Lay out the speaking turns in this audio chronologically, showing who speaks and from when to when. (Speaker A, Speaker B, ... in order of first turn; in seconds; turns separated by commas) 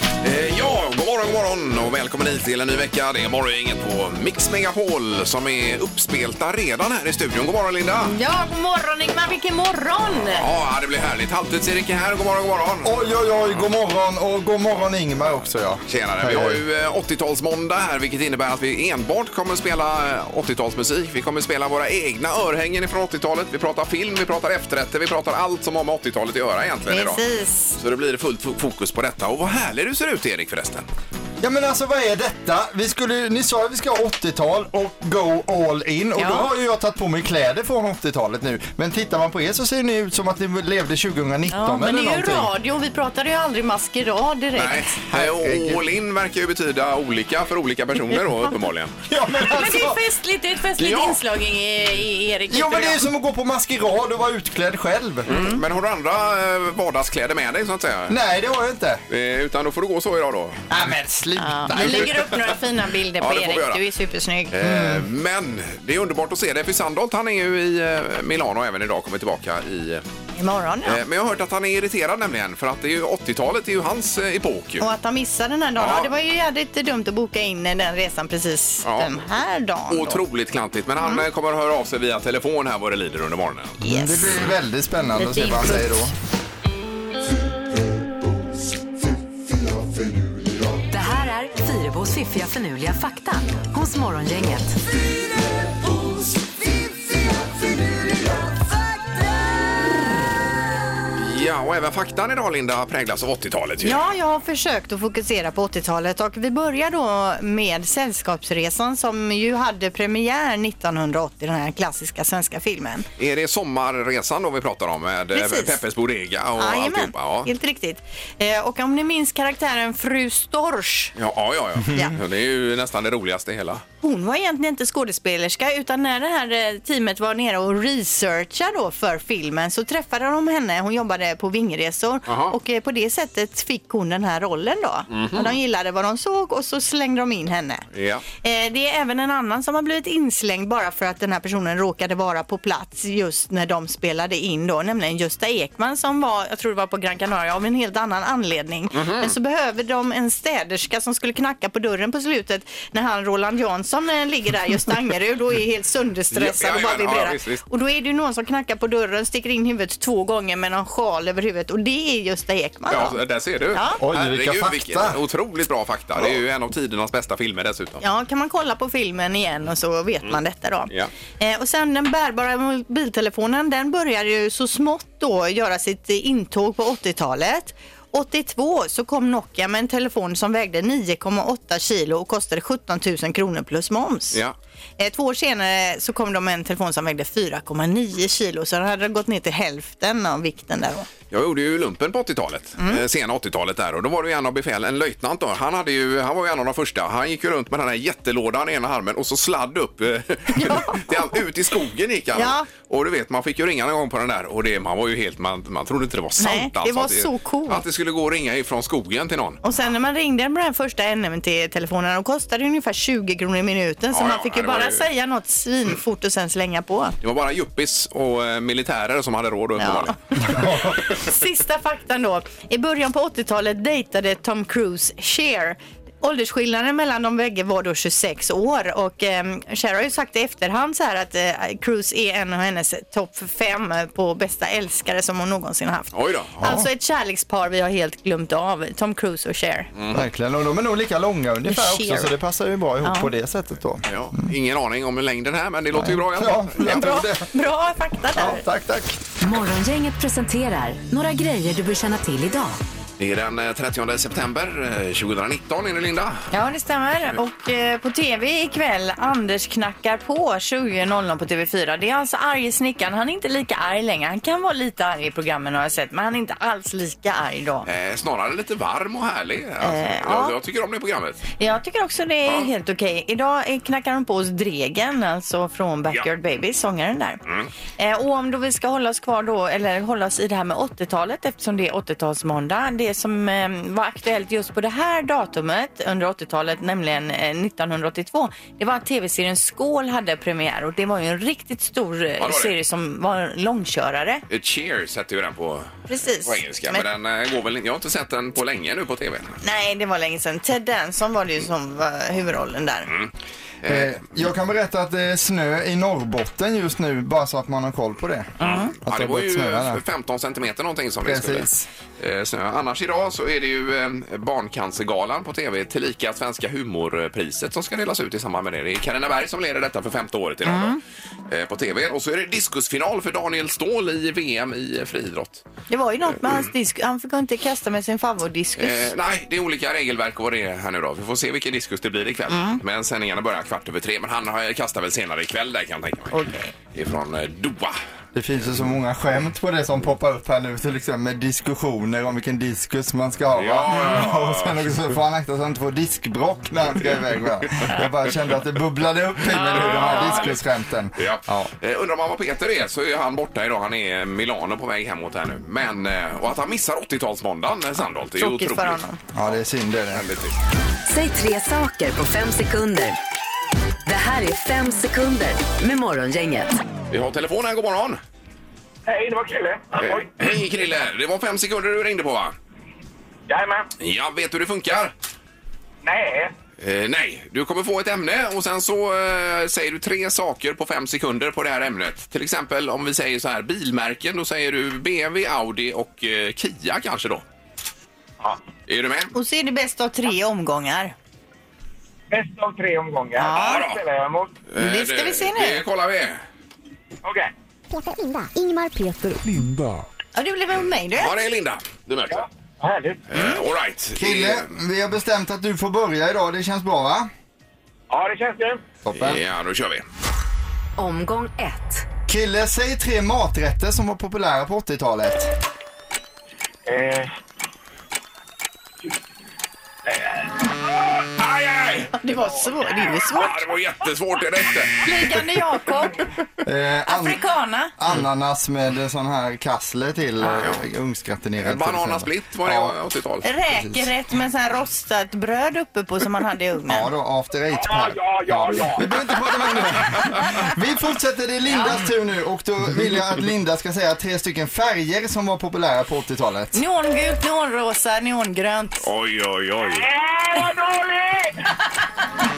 Speaker A: 0.2-8.1, Speaker B: 8.0-10.4, Speaker A: 10.3-12.9, Speaker C: 12.8-16.6, Speaker A: 15.9-27.2, Speaker B: 26.9-27.8, Speaker A: 27.8-30.9, Speaker C: 31.4-42.5, Speaker B: 36.2-36.5, Speaker B: 41.5-45.0, Speaker A: 44.5-49.0, Speaker C: 45.1-45.8, Speaker C: 49.1-50.0, Speaker B: 49.5-53.0, Speaker A: 50.8-51.2, Speaker C: 52.5-55.3, Speaker A: 55.3-58.2, Speaker B: 55.3-55.6, Speaker C: 58.1-59.0, Speaker A: 59.1-60.7, Speaker C: 60.7-62.3, Speaker B: 61.4-64.5, Speaker A: 61.7-62.2, Speaker A: 63.2-63.8, Speaker A: 64.5-70.0, Speaker C: 64.6-65.0, Speaker B: 70.3-71.0, Speaker A: 70.8-74.8, Speaker B: 74.8-80.2, Speaker A: 75.8-76.1, Speaker A: 78.8-79.2, Speaker A: 79.9-83.8, Speaker B: 83.8-84.4, Speaker C: 83.9-86.1, Speaker B: 85.2-86.0, Speaker C: 89.5-90.6, Speaker D: 90.9-94.8, Speaker A: 101.2-104.0, Speaker B: 103.8-113.1, Speaker A: 113.2-117.5, Speaker B: 115.3-115.8, Speaker B: 116.6-121.1, Speaker A: 121.2-123.8, Speaker B: 121.9-122.2, Speaker B: 124.0-137.8, Speaker A: 132.3-132.5, Speaker A: 135.1-135.5, Speaker A: 137.9-138.2, Speaker B: 138.4-163.2, Speaker A: 148.9-149.3, Speaker A: 156.3-157.6, Speaker A: 162.9-168.0, Speaker B: 163.7-164.0, Speaker C: 164.0-165.2, Speaker B: 168.0-184.4, Speaker B: 185.0-191.1, Speaker A: 191.3-209.6, Speaker B: 200.5-201.3, Speaker B: 202.3-202.7, Speaker B: 206.4-207.8, Speaker B: 209.6-217.2, Speaker A: 214.1-215.1, Speaker A: 217.2-220.2, Speaker B: 219.8-239.9, Speaker C: 220.4-221.0, Speaker A: 236.1-236.8, Speaker A: 239.9-240.2, Speaker C: 240.1-244.0, Speaker B: 241.7-242.3, Speaker B: 243.0-243.3, Speaker A: 244.1-246.8, Speaker C: 245.9-247.5, Speaker B: 246.8-248.6, Speaker C: 248.3-249.2, Speaker D: 249.4-252.8, Speaker A: 253.2-256.4, Speaker B: 256.5-267.9, Speaker A: 267.9-271.4, Speaker B: 269.8-270.5, Speaker B: 271.6-277.4, Speaker B: 278.0-294.4, Speaker A: 292.4-292.7, Speaker A: 294.5-295.9, Speaker B: 296.1-297.0, Speaker A: 296.4-299.6, Speaker B: 299.6-303.1, Speaker A: 303.1-303.3, Speaker A: 303.8-304.4, Speaker C: 303.8-310.0, Speaker B: 308.6-308.9, Speaker A: 308.6-321.0, Speaker C: 311.2-311.9, Speaker B: 320.6-321.0, Speaker A: 321.5-325.6, Speaker B: 325.9-329.1, Speaker A: 328.8-337.9, Speaker B: 332.5-332.8, Speaker B: 336.3-336.7, Speaker C: 338.3-351.7, Speaker A: 343.5-344.8, Speaker A: 347.0-347.7, Speaker B: 349.5-350.5, Speaker A: 349.5-350.6, Speaker A: 351.2-359.0, Speaker B: 358.4-359.2, Speaker C: 359.3-360.2, Speaker A: 360.1-360.6, Speaker D: 361.1-363.2, Speaker D: 364.1-366.8, Speaker A: 367.1-368.2, Speaker E: 369.1-370.3, Speaker A: 370.0-372.5, Speaker E: 373.5-373.9, Speaker A: 374.0-375.1, Speaker E: 376.0-376.5, Speaker A: 376.8-387.4, Speaker A: 388.9-389.3, Speaker B: 389.3-391.1, Speaker E: 392.3-394.5, Speaker B: 393.4-393.8, Speaker A: 393.5-394.0, Speaker A: 394.7-396.4, Speaker B: 394.8-395.8, Speaker E: 397.2-397.5, Speaker F: 397.9-400.0, Speaker B: 400.3-401.4, Speaker A: 401.1-402.4, Speaker E: 402.3-403.2, Speaker A: 403.3-404.7, Speaker C: 404.1-407.3, Speaker E: 408.1-408.8, Speaker C: 409.0-409.4, Speaker A: 409.1-410.1, Speaker D: 411.0-412.1, Speaker C: 412.3-415.5, Speaker E: 416.9-417.3, Speaker E: 420.1-421.1, Speaker A: 421.4-422.1, Speaker B: 422.1-423.6, Speaker A: 423.3-424.9, Speaker B: 425.0-426.2, Speaker C: 426.6-427.4, Speaker B: 427.1-427.9, Speaker C: 428.0-432.9, Speaker A: 430.4-430.8, Speaker A: 431.6-433.4, Speaker B: 433.4-437.1, Speaker C: 436.9-446.8, Speaker E: 437.7-439.1, Speaker B: 441.7-441.9, Speaker B: 446.7-449.1, Speaker A: 449.0-450.1, Speaker E: 449.8-451.7